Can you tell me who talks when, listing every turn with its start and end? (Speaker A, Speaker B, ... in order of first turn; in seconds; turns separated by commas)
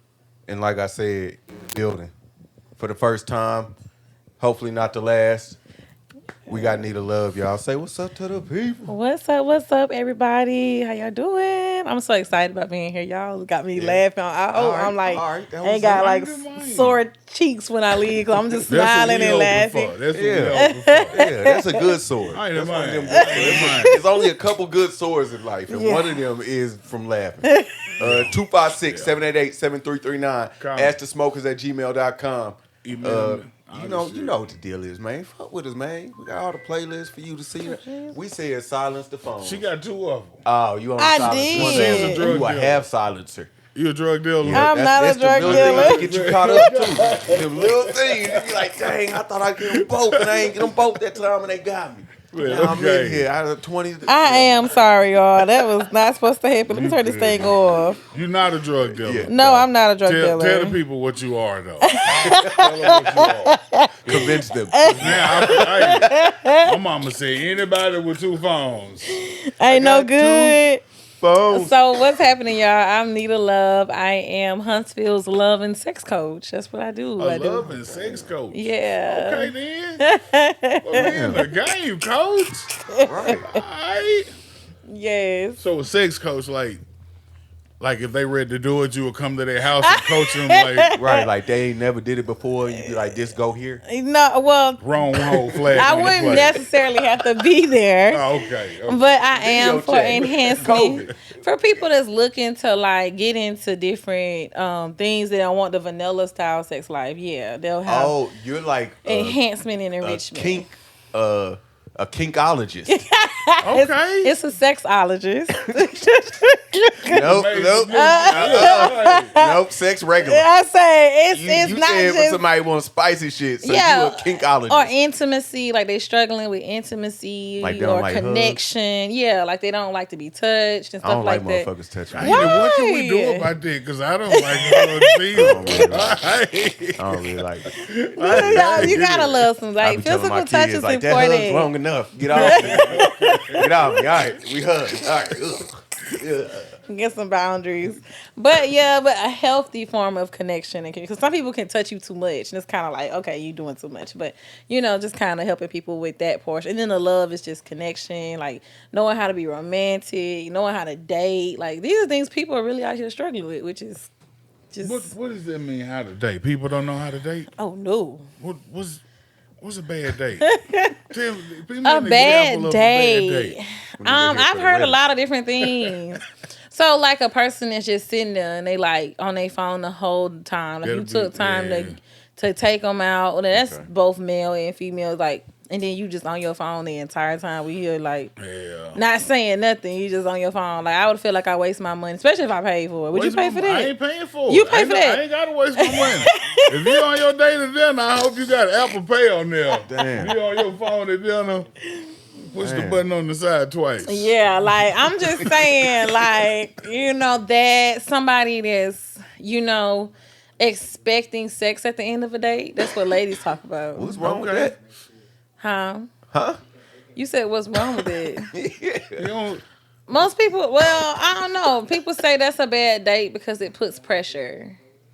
Speaker A: 0.5-2.1, Speaker A: 2.8-3.7, Speaker A: 4.4-5.6, Speaker A: 6.5-8.9, Speaker B: 8.9-21.8, Speaker A: 13.8-16.0, Speaker C: 15.8-17.0, Speaker C: 18.7-21.2, Speaker A: 20.1-39.6, Speaker C: 22.3-24.0, Speaker B: 23.1-24.3, Speaker B: 25.7-26.2, Speaker B: 27.4-27.9, Speaker C: 28.0-29.2, Speaker C: 30.6-31.0, Speaker C: 32.8-34.4, Speaker B: 37.6-38.2, Speaker C: 39.4-40.4, Speaker A: 40.4-43.5, Speaker B: 41.0-42.3, Speaker C: 41.5-42.8, Speaker C: 43.7-44.7, Speaker A: 44.4-54.7, Speaker B: 44.5-46.1, Speaker C: 45.3-49.0, Speaker C: 49.6-50.7, Speaker C: 52.3-53.3, Speaker B: 54.1-58.0, Speaker C: 56.7-57.5, Speaker C: 58.1-59.3, Speaker A: 59.0-59.6, Speaker B: 59.3-60.8, Speaker C: 60.0-63.5, Speaker B: 61.8-66.8, Speaker A: 64.0-66.1, Speaker C: 64.8-66.1, Speaker C: 66.6-69.2, Speaker B: 69.1-70.8, Speaker A: 69.7-70.6, Speaker A: 71.2-72.0, Speaker B: 71.5-81.5, Speaker C: 77.2-80.0, Speaker C: 80.8-82.7, Speaker A: 80.9-81.4, Speaker B: 82.9-83.6, Speaker A: 83.0-83.5, Speaker C: 83.4-84.3, Speaker B: 84.9-85.6, Speaker C: 85.6-86.8, Speaker C: 87.8-90.9, Speaker B: 89.8-91.3, Speaker A: 91.0-93.8, Speaker B: 92.7-93.0, Speaker B: 93.9-98.3, Speaker C: 94.8-96.6, Speaker A: 95.1-96.6, Speaker C: 98.1-99.1, Speaker B: 98.8-108.2, Speaker A: 99.4-101.1, Speaker C: 100.6-101.0, Speaker A: 107.9-109.4, Speaker B: 109.0-110.7, Speaker A: 110.0-113.0, Speaker B: 112.9-119.6, Speaker C: 113.6-114.3, Speaker C: 117.0-119.4, Speaker A: 117.1-120.5, Speaker B: 120.2-122.4, Speaker A: 121.3-124.9, Speaker B: 123.6-131.7, Speaker A: 127.6-128.6, Speaker A: 131.0-132.6, Speaker C: 132.1-139.5, Speaker B: 132.2-133.5, Speaker B: 134.3-136.1, Speaker A: 135.3-136.2, Speaker A: 137.0-139.0, Speaker B: 138.2-141.7, Speaker A: 139.8-146.8, Speaker B: 142.3-144.0, Speaker C: 142.3-143.8, Speaker B: 146.9-164.1, Speaker B: 164.7-165.1, Speaker C: 164.8-167.5, Speaker B: 167.6-168.3, Speaker C: 168.4-169.0, Speaker C: 169.6-170.5, Speaker B: 170.4-171.0, Speaker C: 171.1-173.6, Speaker B: 171.8-188.3, Speaker A: 174.0-175.0, Speaker C: 180.8-182.0, Speaker A: 183.5-183.9, Speaker C: 188.4-189.0, Speaker B: 188.9-193.9, Speaker C: 193.1-201.7, Speaker B: 194.5-195.2, Speaker B: 195.8-197.0, Speaker A: 199.8-200.3, Speaker C: 202.4-204.3, Speaker A: 202.6-203.0, Speaker B: 204.1-214.2, Speaker A: 205.2-206.4, Speaker A: 212.8-213.1, Speaker A: 213.9-214.8, Speaker C: 214.1-214.8, Speaker B: 215.6-216.1, Speaker A: 216.3-216.6, Speaker B: 217.1-218.5, Speaker A: 217.8-219.3, Speaker C: 219.2-219.6, Speaker B: 220.1-224.8